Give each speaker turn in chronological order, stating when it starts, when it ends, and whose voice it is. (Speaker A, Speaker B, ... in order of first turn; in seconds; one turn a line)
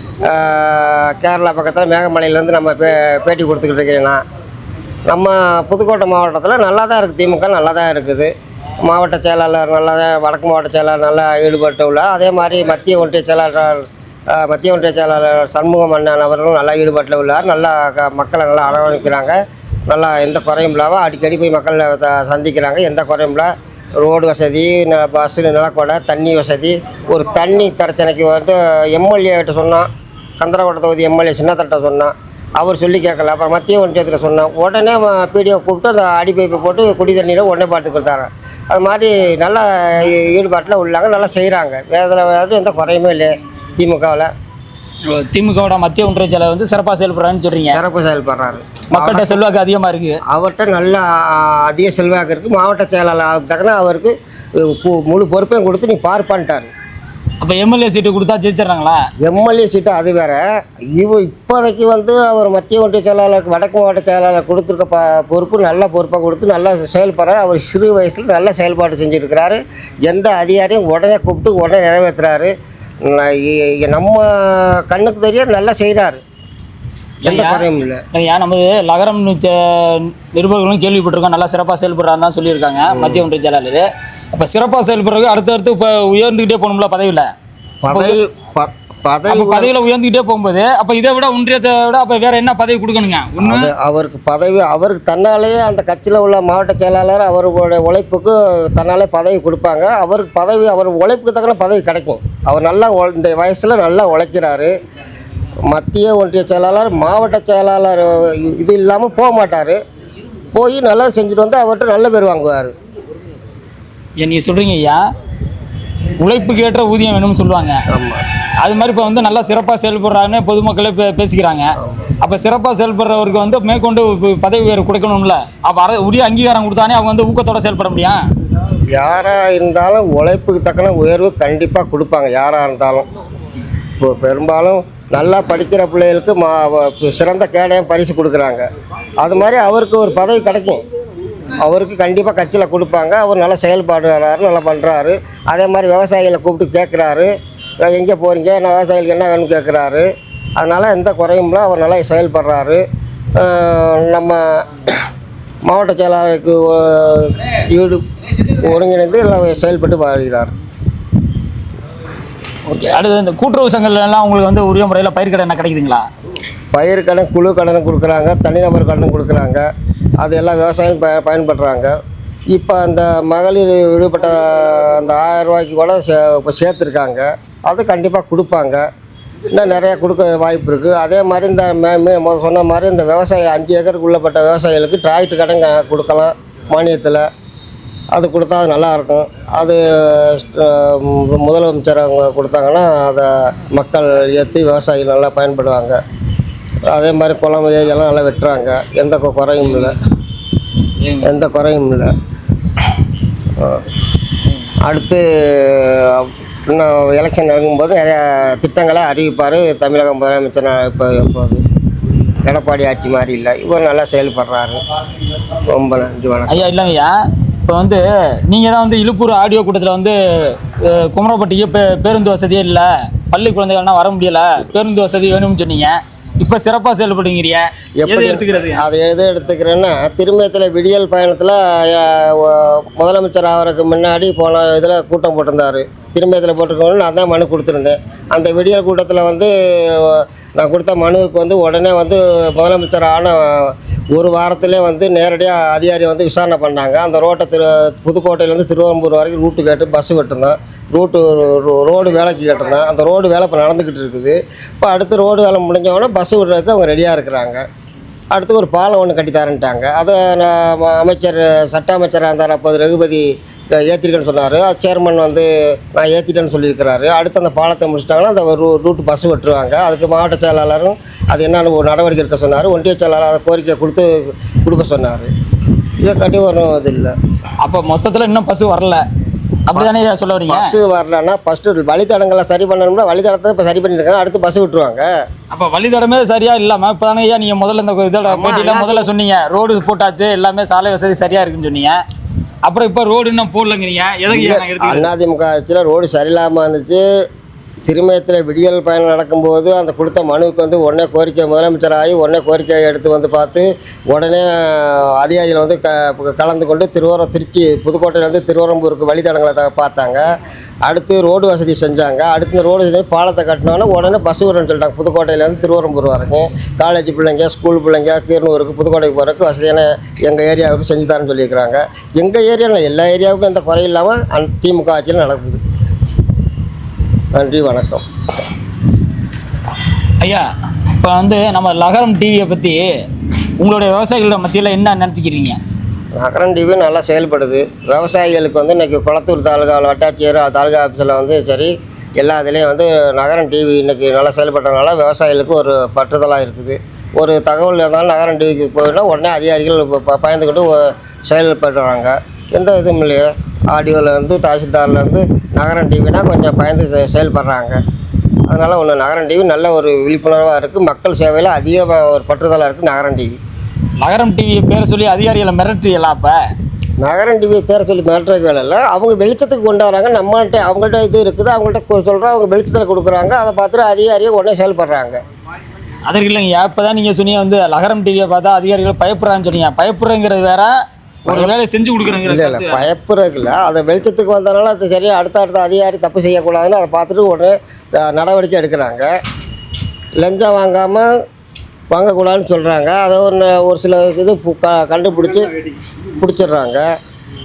Speaker A: 0.2-4.2
Speaker A: 5.1-8.3
Speaker A: 8.8-29.9
Speaker A: 30.4-44.3
Speaker B: 45.1-47.8
Speaker A: 47.6-49.4
Speaker B: 48.9-50.2
Speaker A: 50.3-56.7
Speaker B: 57.4-59.0
Speaker A: 59.2-72.5
Speaker A: 73.0-76.2
Speaker B: 77.2-87.3
Speaker A: 77.2-78.0
Speaker A: 82.9-83.2
Speaker A: 87.8-89.7
Speaker B: 87.9-88.2
Speaker B: 89.3-93.7
Speaker A: 93.4-104.7
Speaker A: 105.7-109.8
Speaker A: 110.5-112.7
Speaker B: 114.2-115.0
Speaker B: 116.2-117.8
Speaker A: 117.9-118.2
Speaker B: 118.6-128.2
Speaker A: 121.8-122.1
Speaker A: 128.9-133.1
Speaker A: 134.0-138.6
Speaker A: 139.2-140.8
Speaker A: 141.5-152.8
Speaker A: 153.3-154.9
Speaker A: 155.7-160.5
Speaker B: 162.7-166.0
Speaker A: 166.7-169.7
Speaker A: 170.2-171.9
Speaker A: 172.5-178.8
Speaker A: 179.5-187.3
Speaker A: 188.1-196.0
Speaker A: 196.9-200.0
Speaker B: 201.0-201.4
Speaker A: 201.2-202.1
Speaker A: 203.6-203.8
Speaker A: 204.8-211.6
Speaker A: 212.4-214.8
Speaker A: 215.6-216.7
Speaker B: 216.5-217.1
Speaker B: 217.7-228.8
Speaker A: 228.0-257.6
Speaker A: 258.3-275.3
Speaker A: 276.0-277.1
Speaker B: 277.6-279.0
Speaker B: 279.7-280.8
Speaker A: 280.5-285.1
Speaker B: 285.5-291.9
Speaker A: 288.3-289.1
Speaker B: 292.6-295.1
Speaker A: 294.3-297.0
Speaker A: 297.9-310.2
Speaker A: 310.9-325.6
Speaker A: 327.3-328.0
Speaker B: 330.2-330.4
Speaker B: 331.0-332.9
Speaker B: 333.6-335.6
Speaker A: 336.2-357.8
Speaker A: 358.5-363.4
Speaker B: 364.0-366.4
Speaker A: 367.0-375.2
Speaker B: 376.1-380.7
Speaker A: 381.3-381.5
Speaker B: 381.3-382.8
Speaker A: 382.2-389.1
Speaker A: 390.2-391.1
Speaker A: 391.9-395.5
Speaker A: 396.2-396.9